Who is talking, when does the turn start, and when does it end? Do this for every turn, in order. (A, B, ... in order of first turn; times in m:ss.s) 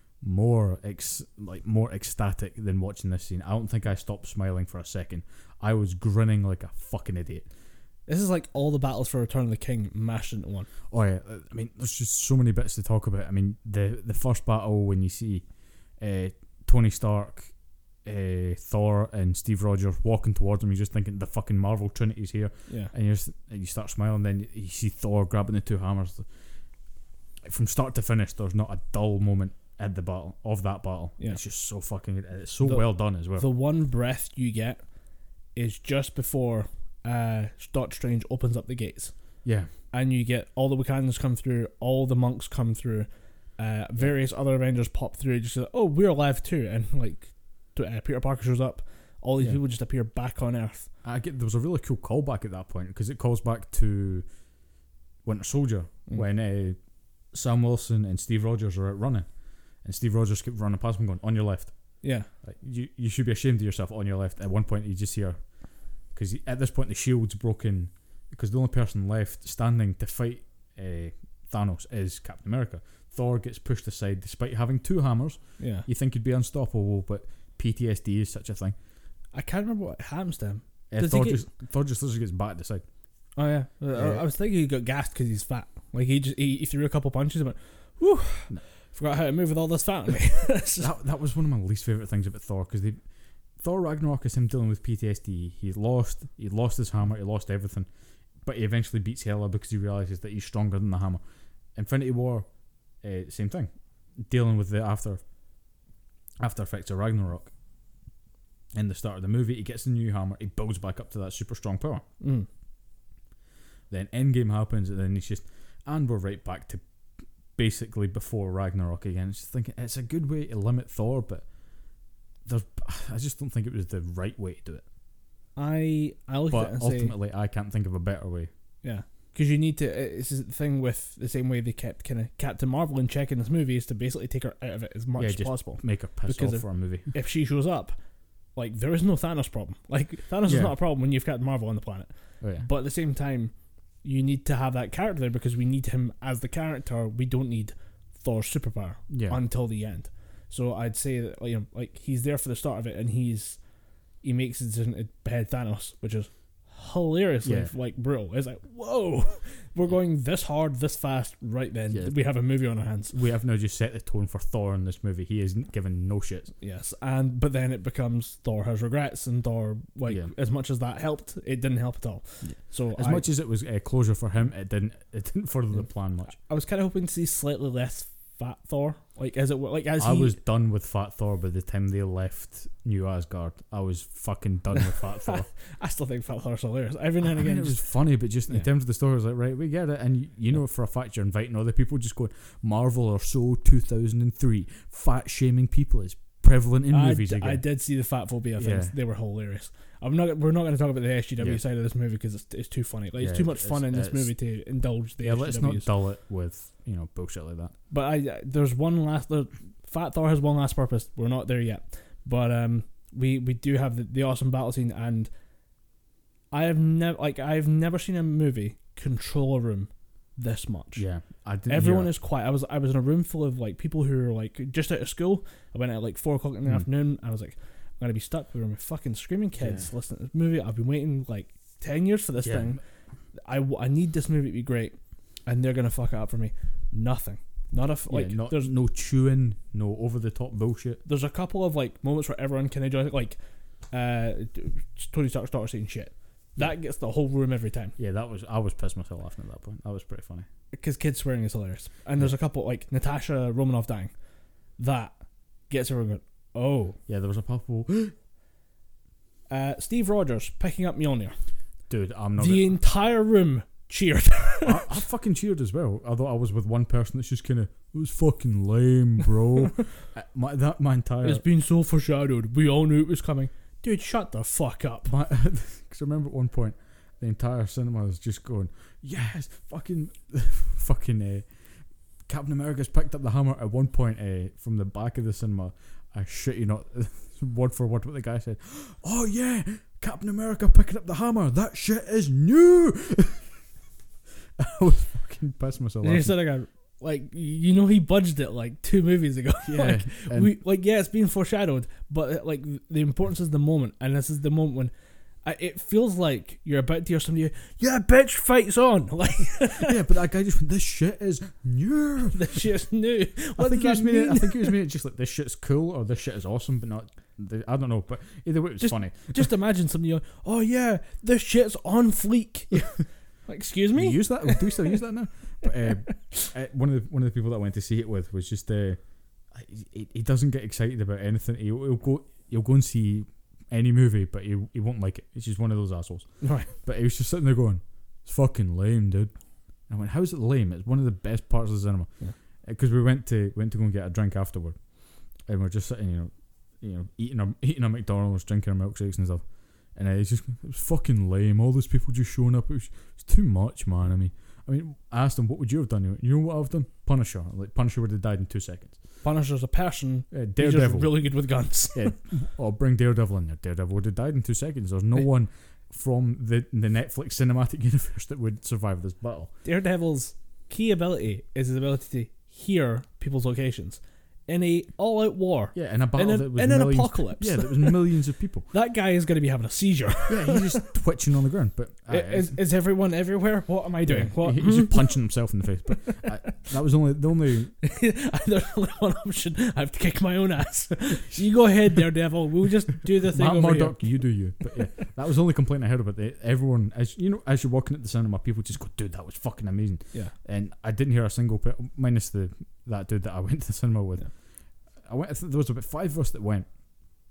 0:00.2-0:07.5 A
0:08.1-0:10.7 B
0:10.9-0:15.4 A
0:16.0-0:17.5 A
0:18.0-0:26.3 A
0:27.4-0:33.4 A
0:32.6-0:34.8 B
0:35.5-0:39.1 B
0:39.4-0:39.7 A
0:39.9-0:50.9 B
0:51.0-0:54.2 A
0:55.2-0:56.8 A
0:57.3-0:59.3 A
0:59.8-1:05.4 A
1:02.0-1:02.3 B
1:06.1-1:18.7 A
1:15.6-1:15.9 B
1:19.3-1:21.4 B
1:20.9-1:22.8 A
1:23.4-1:30.9 B
1:23.9-1:24.2 A
1:30.8-1:33.0 A
1:33.6-1:37.9 A
1:38.4-1:41.2 A
1:41.7-1:42.5 A
1:43.0-1:45.2 A
1:46.4-1:47.5 A
1:48.7-1:52.0 A
1:52.2-1:52.5 B
1:53.9-1:56.8 A
1:57.6-2:01.4 A
2:02.4-2:04.8 A
2:05.6-2:07.1 B
2:06.5-2:08.5 A
2:08.8-2:18.0 B
2:15.2-2:17.1 A
2:18.5-2:33.6 B
2:20.4-2:20.7 A
2:22.4-2:22.6 A
2:29.1-2:29.4 A
2:34.2-2:43.1 B
2:37.4-2:37.7 A
2:43.1-2:46.5 A
2:46.6-2:53.2 B
2:52.4-2:56.3 A
2:56.3-3:00.4 B
3:00.0-3:05.5 A
3:05.2-3:07.8 B
3:07.2-3:17.6 A
3:16.9-3:25.9 B
3:18.6-3:18.9 A
3:23.2-3:24.3 A
3:25.2-3:27.7 A
3:27.9-3:35.3 B
3:36.5-3:41.0 B
3:41.0-3:42.1 A
3:41.7-3:52.8 B
3:49.6-3:49.9 A
3:52.4-3:52.8 A
3:53.4-3:58.7 B
3:58.1-4:01.0 A
4:01.0-4:03.4 B
4:03.9-4:07.9 B
4:08.0-4:10.5 A
4:10.7-4:14.1 B
4:14.8-4:15.2 B
4:15.7-4:17.0 B
4:17.1-4:18.1 A
4:19.5-4:21.4 B
4:21.9-4:22.7 A
4:22.4-4:24.9 B
4:24.6-4:31.4 A
4:31.2-4:35.1 B
4:35.0-4:41.5 A
4:42.3-4:53.5 A
4:54.6-4:56.3 A
4:56.0-5:04.9 B
4:59.6-5:00.5 A
5:05.4-5:10.0 B
5:09.8-5:12.6 A
5:12.3-5:14.8 B
5:13.6-5:19.5 A
5:18.8-5:24.8 B
5:23.9-5:29.0 A
5:25.9-5:26.5 B
5:29.5-5:39.3 A
5:36.4-5:36.7 B
5:39.9-5:42.1 A
5:42.6-5:44.8 A
5:45.4-5:59.0 A
5:59.2-6:02.1 B
6:00.3-6:01.4 A
6:01.9-6:09.5 A
6:09.6-6:18.0 B
6:15.7-6:18.7 A
6:18.7-6:20.8 B
6:20.3-6:22.6 A
6:22.1-6:25.2 B
6:24.0-6:27.7 A
6:25.9-6:26.5 B
6:27.8-6:34.9 B
6:33.2-6:44.3 A
6:45.0-6:46.7 A